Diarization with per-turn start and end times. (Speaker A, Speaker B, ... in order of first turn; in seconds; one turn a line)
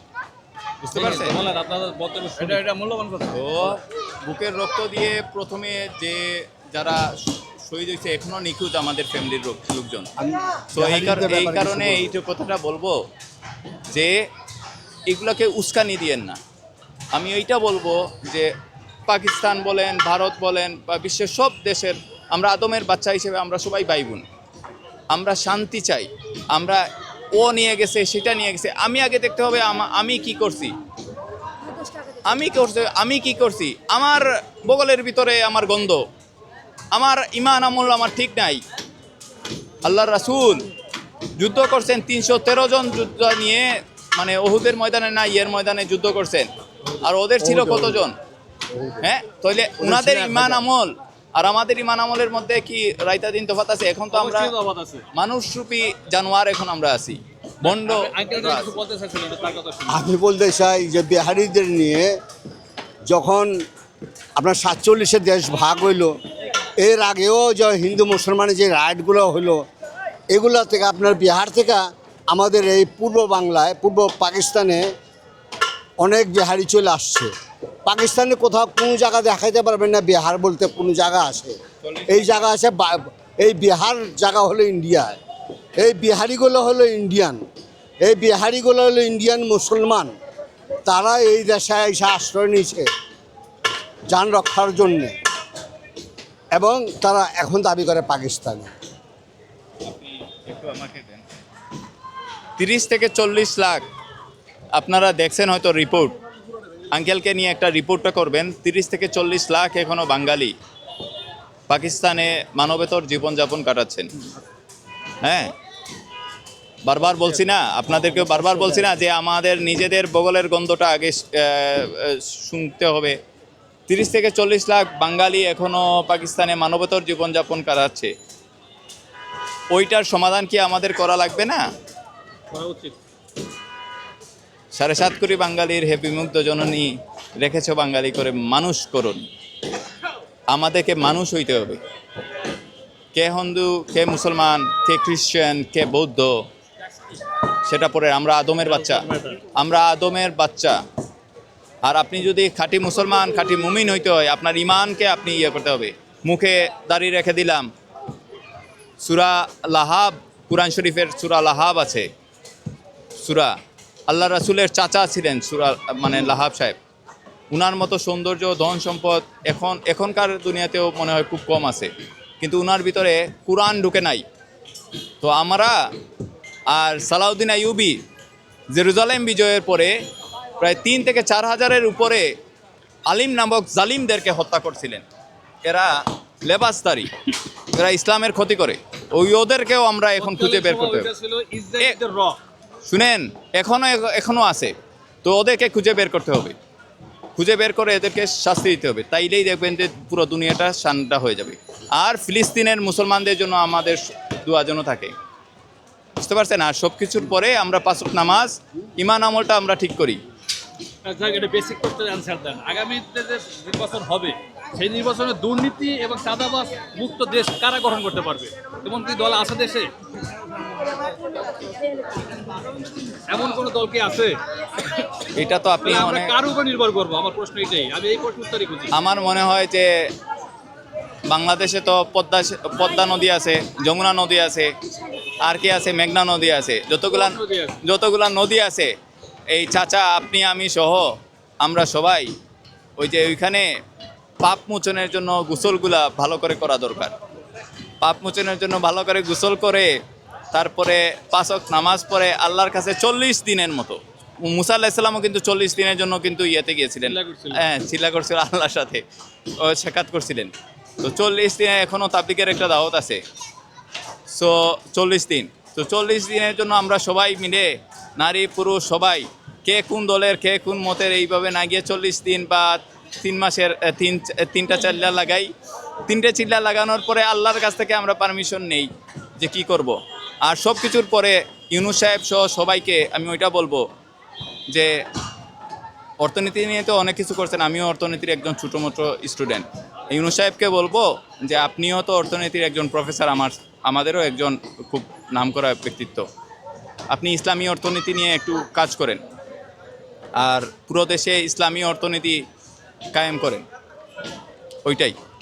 Speaker A: 0.8-1.4
Speaker B: 0.9-3.6
Speaker A: 3.3-10.1
Speaker C: 10.2-12.2
Speaker A: 10.8-13.0
Speaker A: 15.1-16.4
Speaker A: 17.1-18.5
Speaker A: 19.1-24.2
Speaker A: 25.1-30.8
Speaker A: 32.2-36.1
Speaker A: 36.9-38.6
Speaker A: 39.8-40.6
Speaker A: 41.4-46.5
Speaker A: 47.0-48.2
Speaker C: 47.4-48.0
Speaker C: 48.7-49.1
Speaker A: 49.0-54.5
Speaker C: 49.8-50.6
Speaker B: 54.1-55.0
Speaker A: 55.1-58.8
Speaker B: 57.6-60.1
Speaker C: 59.9-62.2
Speaker C: 63.1-63.5
Speaker C: 64.4-66.1
Speaker C: 66.8-69.7
Speaker C: 70.3-74.9
Speaker C: 76.0-77.3
Speaker C: 77.9-85.2
Speaker A: 81.8-82.5
Speaker C: 85.8-87.4
Speaker C: 88.0-90.1
Speaker C: 90.8-92.9
Speaker C: 94.1-95.2
Speaker C: 96.5-98.7
Speaker A: 99.9-101.2
Speaker A: 102.6-103.8
Speaker A: 104.7-106.2
Speaker A: 106.9-110.5
Speaker A: 111.7-114.1
Speaker A: 115.2-115.5
Speaker A: 116.8-123.2
Speaker A: 123.9-128.1
Speaker A: 129.7-131.6
Speaker B: 132.5-133.0
Speaker A: 134.7-139.3
Speaker A: 140.5-141.8
Speaker A: 143.1-146.4
Speaker A: 147.7-150.8
Speaker B: 148.7-149.4
Speaker A: 151.8-157.7
Speaker A: 159.0-162.1
Speaker A: 163.2-163.6
Speaker A: 164.1-166.8
Speaker A: 167.5-174.2
Speaker A: 175.2-175.8
Speaker A: 176.7-178.0
Speaker A: 178.7-180.0
Speaker A: 180.6-182.3
Speaker A: 183.1-185.1
Speaker A: 185.6-187.1
Speaker A: 187.7-191.1
Speaker B: 190.2-192.4
Speaker A: 192.8-196.6
Speaker A: 197.4-205.1
Speaker A: 206.2-210.2
Speaker B: 211.0-219.9
Speaker B: 223.3-225.1
Speaker A: 225.3-226.3
Speaker B: 225.8-228.9
Speaker A: 228.9-229.9
Speaker A: 231.3-234.7
Speaker A: 235.4-238.9
Speaker B: 237.1-237.8
Speaker A: 239.5-242.3
Speaker A: 243.0-243.7
Speaker A: 244.4-247.1
Speaker A: 248.0-250.0
Speaker A: 250.5-259.0
Speaker B: 257.1-257.6
Speaker A: 259.6-263.2
Speaker A: 264.3-275.5
Speaker A: 276.1-283.9
Speaker A: 284.7-285.0
Speaker A: 286.2-296.3
Speaker A: 297.1-299.2
Speaker A: 300.4-302.4
Speaker A: 303.1-303.6
Speaker A: 304.8-305.1